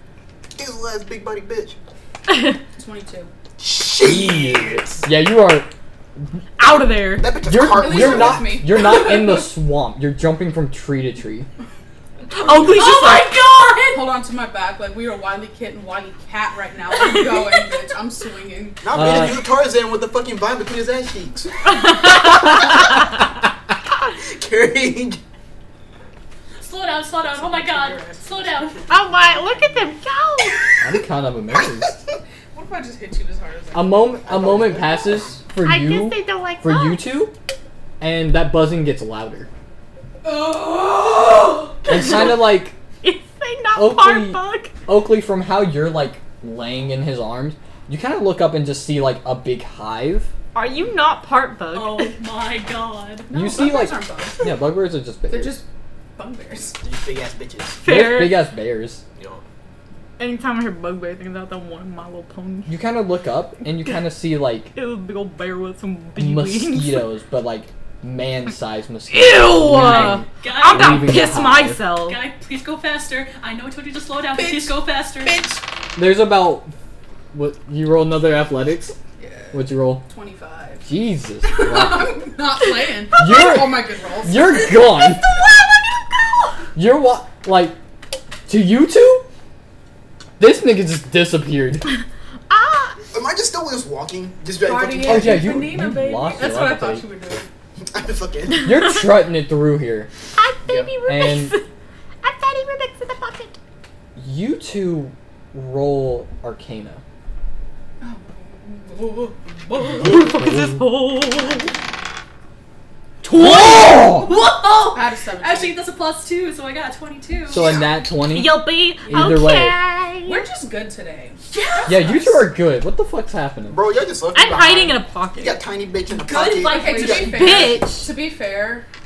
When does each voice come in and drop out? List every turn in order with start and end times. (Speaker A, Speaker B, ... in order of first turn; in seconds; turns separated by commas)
Speaker A: 0.6-1.8, Speaker B: 2.3-2.6, Speaker C: 2.7-3.3, Speaker A: 3.6-5.0, Speaker D: 4.0-5.7, Speaker B: 6.6-7.4, Speaker A: 7.2-8.5, Speaker D: 7.4-11.5, Speaker C: 7.7-9.5, Speaker A: 12.2-12.9, Speaker B: 12.3-13.4, Speaker E: 12.7-14.2, Speaker C: 13.9-19.1, Speaker B: 17.0-17.5, Speaker A: 18.8-21.8, Speaker D: 18.9-19.4, Speaker B: 21.7-22.7, Speaker A: 24.1-25.2, Speaker E: 26.6-28.9, Speaker C: 27.2-29.9, Speaker B: 28.9-30.8, Speaker D: 30.8-32.0, Speaker C: 32.5-34.1, Speaker D: 33.7-37.3, Speaker A: 34.2-35.4, Speaker B: 35.6-37.0, Speaker D: 38.0-39.5, Speaker C: 40.2-41.8, Speaker D: 41.9-42.8, Speaker B: 41.9-42.4, Speaker B: 43.0-44.7, Speaker D: 43.7-50.3, Speaker B: 50.5-52.1, Speaker E: 51.7-53.3, Speaker C: 53.3-54.6, Speaker D: 53.3-55.6, Speaker C: 55.3-55.6, Speaker C: 56.1-56.8, Speaker A: 56.7-57.8, Speaker B: 57.8-58.4, Speaker D: 57.8-59.0, Speaker A: 59.1-59.4, Speaker B: 60.2-62.8, Speaker D: 62.6-64.7, Speaker B: 64.7-67.1, Speaker D: 66.2-71.8, Speaker B: 69.1-72.2, Speaker E: 69.8-71.3, Speaker E: 72.0-75.4, Speaker C: 74.3-75.6, Speaker D: 76.0-76.7, Speaker D: 77.3-79.0, Speaker C: 79.2-80.9, Speaker D: 79.5-80.0, Speaker D: 80.8-82.2, Speaker C: 81.4-84.7, Speaker D: 83.2-85.3, Speaker B: 85.4-85.8, Speaker D: 86.7-87.8, Speaker D: 88.5-89.3, Speaker D: 90.4-91.9, Speaker B: 92.5-93.0, Speaker A: 93.1-95.8, Speaker C: 94.6-97.5, Speaker D: 95.0-97.0, Speaker A: 97.8-98.8, Speaker D: 98.6-100.1, Speaker B: 100.3-101.6, Speaker A: 100.6-101.0, Speaker D: 101.0-101.6, Speaker B: 102.2-103.5, Speaker D: 104.2-107.0, Speaker C: 108.0-110.2, Speaker B: 110.0-111.8, Speaker D: 110.1-110.9, Speaker D: 113.2-114.3, Speaker E: 113.3-117.8, Speaker C: 114.9-115.8, Speaker D: 117.5-119.8, Speaker A: 117.5-117.9, Speaker B: 118.2-120.4, Speaker C: 120.2-122.5, Speaker E: 121.5-121.9, Speaker D: 121.8-123.8, Speaker A: 123.7-127.8, Speaker B: 124.3-125.6, Speaker E: 126.1-127.7, Speaker C: 126.6-128.9, Speaker B: 126.8-128.1